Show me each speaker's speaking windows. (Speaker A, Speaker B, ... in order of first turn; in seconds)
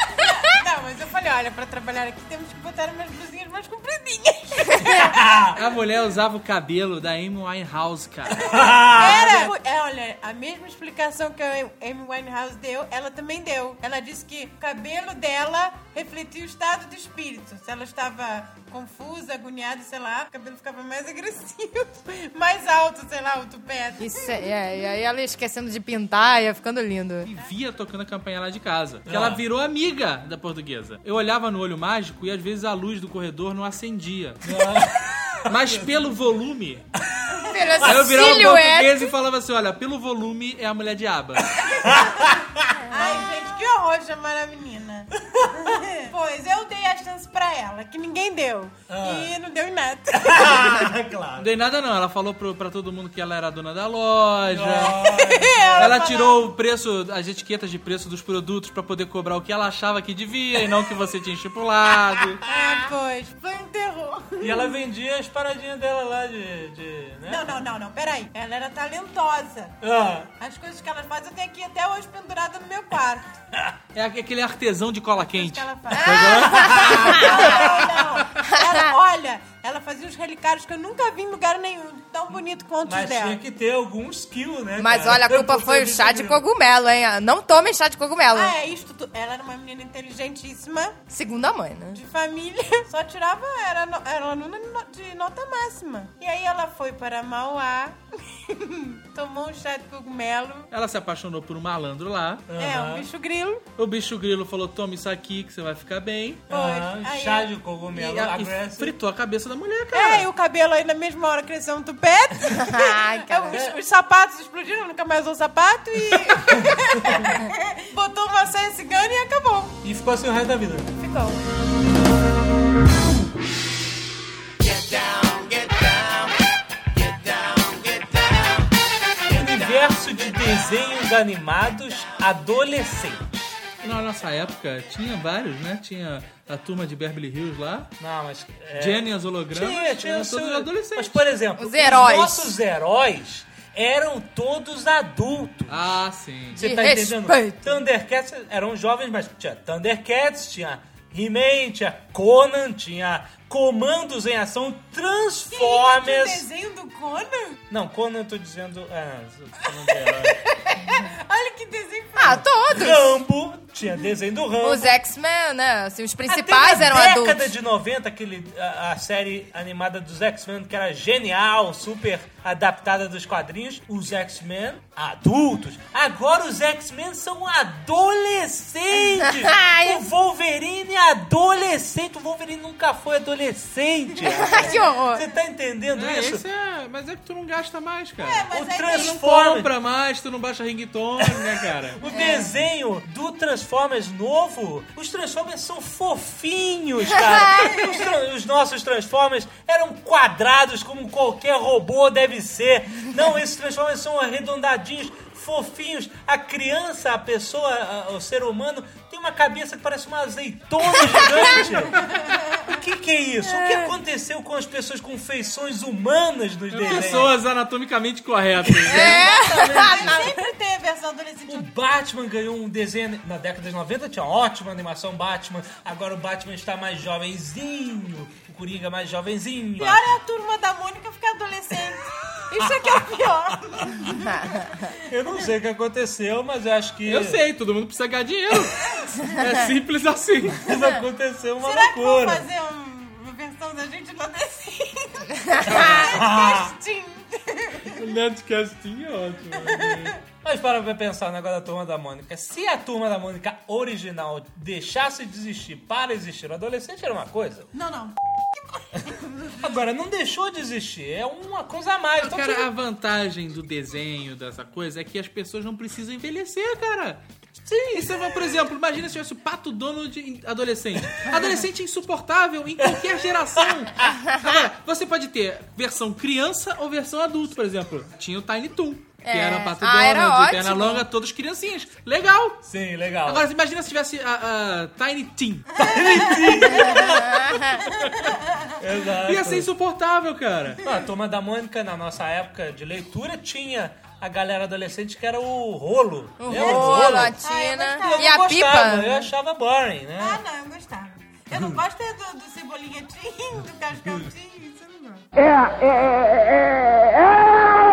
Speaker A: 0.2-5.2, 8.8-24.3, 42.9-50.9, 55.0-56.5, 62.4-64.7, 67.3-69.8, 70.4-73.2, 75.3-83.4, 88.3-91.0, 91.9-100.7, 102.5-103.6, 106.5-107.5, 109.9-119.8, 121.0-121.4, 155.5-157.6, 159.7-162.4, 188.2-189.1, 212.0-212.7, 219.0-221.7, 229.8-234.5, 241.6-248.0, 249.6-250.2, 257.7-259.7, 296.5-298.4, 300.2-305.2
Speaker B: 4.9-5.5, 8.4-9.5, 29.1-29.4, 34.4-35.9, 41.6-42.8, 45.3-45.8, 48.9-49.3, 50.1-51.5, 54.5-56.1, 64.4-67.6, 69.8-70.3, 76.0-77.8, 82.8-86.4, 102.5-103.1, 106.5-109.0, 116.5-117.3, 119.8-120.9, 129.3-133.5, 138.0-146.0, 146.5-156.5, 157.7-160.4, 162.7-165.0, 166.3-186.4, 188.5-189.7, 192.0-212.1, 212.7-217.4, 219.0-220.1, 221.5-230.1, 232.7-233.0, 233.7-234.1, 235.1-237.4, 240.6-242.5, 245.7-246.7, 250.4-257.7, 259.6-262.7, 267.7-268.0, 282.6-283.5, 285.8-287.6, 288.8-289.7, 290.8-297.4, 298.0-300.4
Speaker C: 5.5-8.4, 27.2-34.5, 35.5-36.9, 37.8-41.5, 51.4-55.0, 55.8-62.4, 73.9-77.1, 100.7-102.5, 103.8-106.5, 107.9-110.3, 133.8-137.9, 138.8-141.2, 145.7-146.6, 185.9-192.0, 216.7-219.3, 237.0-240.6, 247.9-250.2, 262.2-267.2, 267.9-282.7, 283.2-285.8, 289.2-290.8
Speaker D: 24.0-27.3, 37.5-39.1, 75.9-77.4, 78.5-78.8, 84.8-88.5, 91.1-92.0, 112.6-113.6, 141.6-142.5, 146.6-147.8, 162.2-163.2, 164.6-167.5, 179.4-180.0, 184.4-185.2, 192.1-192.5, 213.4-213.9, 218.9-220.4, 279.2-281.0, 286.9-287.8, 296.4-299.3